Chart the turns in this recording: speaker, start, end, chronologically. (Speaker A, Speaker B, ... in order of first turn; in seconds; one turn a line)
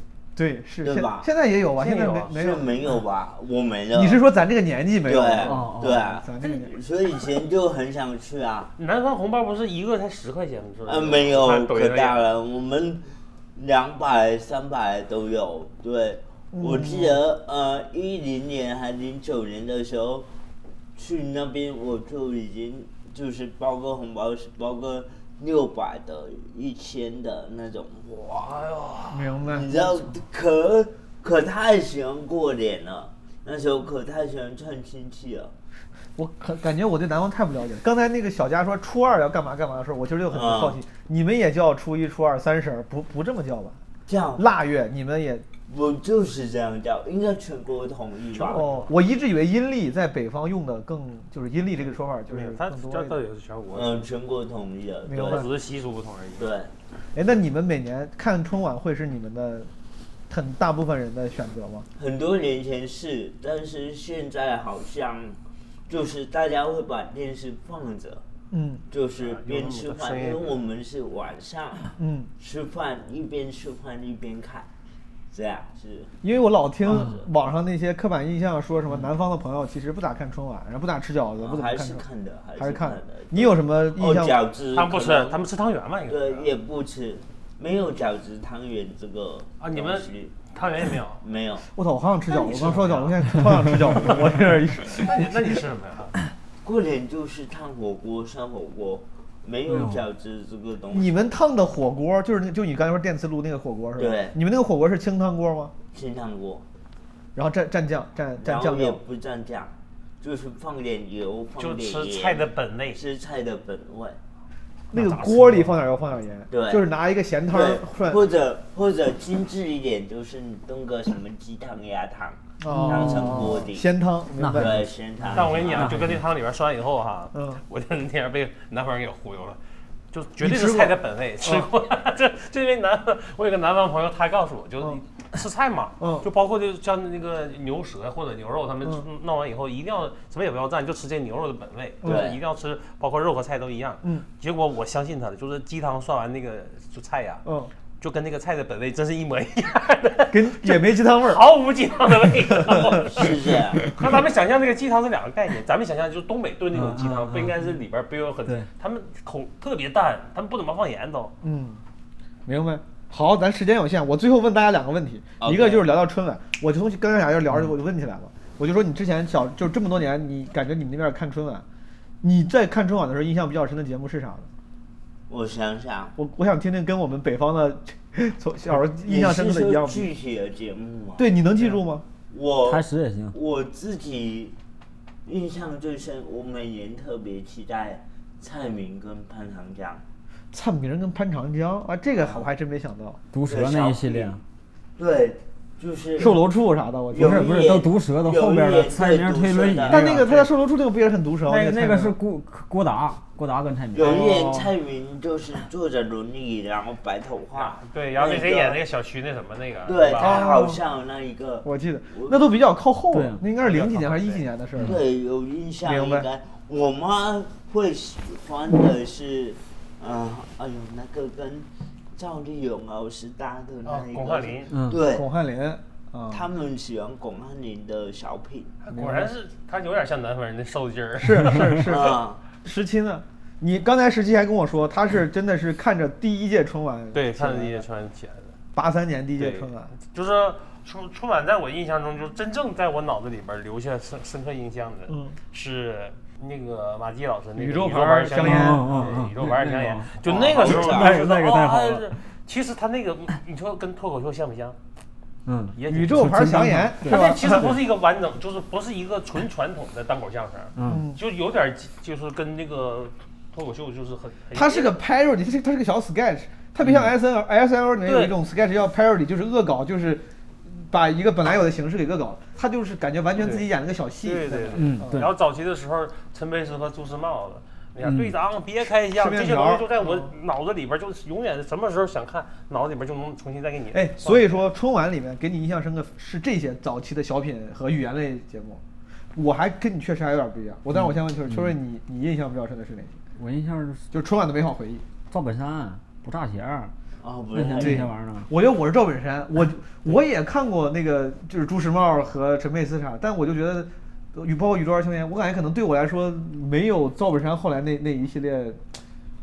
Speaker A: 0.3-2.7
Speaker B: 0.8-1.3
Speaker C: 1.8-2.3
Speaker B: 2.2-4.2
Speaker A: 3.9-6.8
Speaker B: 5.0-8.7
Speaker D: 5.4-6.0
Speaker C: 8.8-12.3
Speaker B: 10.8-20.3
Speaker A: 16.5-17.2
Speaker B: 20.9-35.5
Speaker A: 29.1-29.7
Speaker A: 36.1-43.8
Speaker B: 40.3-40.8
Speaker B: 44.1-44.4
Speaker A: 44.4-45.5
Speaker B: 45.7-48.7
Speaker A: 48.3-53.1
Speaker C: 52.3-54.1
Speaker B: 53.7-55.5
Speaker A: 55.0-55.5
Speaker C: 55.1-56.5
Speaker B: 56.4-56.7
Speaker A: 57.1-59.7
Speaker A: 60.3-61.9
Speaker B: 62.0-65.4
Speaker B: 65.9-68.2
Speaker A: 68.5-68.8
Speaker B: 68.9-74.7
Speaker C: 69.2-70.5
Speaker A: 72.0-72.3
Speaker B: 75.3-76.2
Speaker A: 76.2-82.0
Speaker B: 76.9-77.2
Speaker B: 81.4-85.4
Speaker A: 82.6-84.5
Speaker C: 84.7-86.5
Speaker B: 86.1-90.4
Speaker C: 89.6-91.2
Speaker B: 91.2-91.6
Speaker A: 91.7-95.5
Speaker C: 92.3-94.0
Speaker C: 94.8-96.1
Speaker B: 96.6-101.1
Speaker D: 99.7-100.0
Speaker A: 100.9-105.7
Speaker B: 104.0-104.4
Speaker B: 105.9-106.6
Speaker A: 107.3-109.0
Speaker B: 108.4-114.2
Speaker C: 111.6-113.0
Speaker A: 114.9-118.2
Speaker C: 114.9-115.7
Speaker B: 116.5-116.8
Speaker B: 117.5-123.9
Speaker A: 122.6-124.8
Speaker D: 122.7-123.5
Speaker D: 124.4-126.2
Speaker B: 124.5-126.1
Speaker C: 125.3-129.6
Speaker A: 127.3-127.6
Speaker C: 130.1-147.4
Speaker A: 130.4-131.6
Speaker A: 136.0-136.2
Speaker A: 142.0-142.3
Speaker B: 142.0-142.4
Speaker A: 147.4-147.7
Speaker C: 148.0-161.3
Speaker A: 150.3-151.4
Speaker A: 152.6-153.2
Speaker B: 153.0-153.8
Speaker D: 156.7-157.7
Speaker A: 161.4-161.8
Speaker A: 162.4-171.6
Speaker B: 165.4-165.9
Speaker A: 172.2-174.5
Speaker B: 175.3-176.1
Speaker A: 176.2-180.1
Speaker B: 179.0-181.2
Speaker A: 181.2-182.0
Speaker B: 182.3-184.6
Speaker D: 182.7-183.3
Speaker B: 185.2-190.0
Speaker A: 190.5-193.2
Speaker B: 192.2-192.4
Speaker D: 193.3-194.4
Speaker B: 193.4-194.4
Speaker B: 195.0-196.4
Speaker A: 196.2-197.4
Speaker B: 197.1-200.0
Speaker D: 197.1-200.5
Speaker A: 199.9-202.1
Speaker D: 201.4-204.7
Speaker B: 203.9-208.8
Speaker C: 207.6-210.4
Speaker B: 209.8-212.4
Speaker A: 210.2-210.8
Speaker A: 211.6-215.0
Speaker D: 213.1-213.4
Speaker C: 213.5-214.4
Speaker B: 214.8-225.3
Speaker A: 215.8-216.3
Speaker C: 223.8-224.7
Speaker D: 224.7-225.0
Speaker A: 225.0-226.5
Speaker B: 226.3-228.8
Speaker C: 228.8-231.6
Speaker A: 228.9-229.3
Speaker A: 231.2-237.8
Speaker B: 231.8-232.4
Speaker C: 237.1-238.5
Speaker A: 238.7-239.9
Speaker C: 239.4-254.8
Speaker A: 245.1-245.3
Speaker A: 247.6-249.5
Speaker D: 248.4-252.2
Speaker B: 250.2-251.2
Speaker D: 255.4-257.8
Speaker C: 255.8-256.5
Speaker A: 255.9-257.7
Speaker C: 257.0-264.9
Speaker D: 260.8-261.0
Speaker A: 260.9-261.2
Speaker A: 264.5-275.2
Speaker D: 266.8-267.1
Speaker C: 268.1-268.3
Speaker C: 273.4-273.7
Speaker C: 274.2-284.6
Speaker D: 274.8-275.3
Speaker D: 278.0-278.4
Speaker A: 279.1-280.3
Speaker A: 283.9-288.8
Speaker A: 289.3-293.2
Speaker D: 290.9-291.7
Speaker D: 293.4-294.1
Speaker A: 294.1-295.0
Speaker D: 295.3-296.9
Speaker B: 297.2-298.1
Speaker D: 297.5-298.5
Speaker A: 297.7-308.8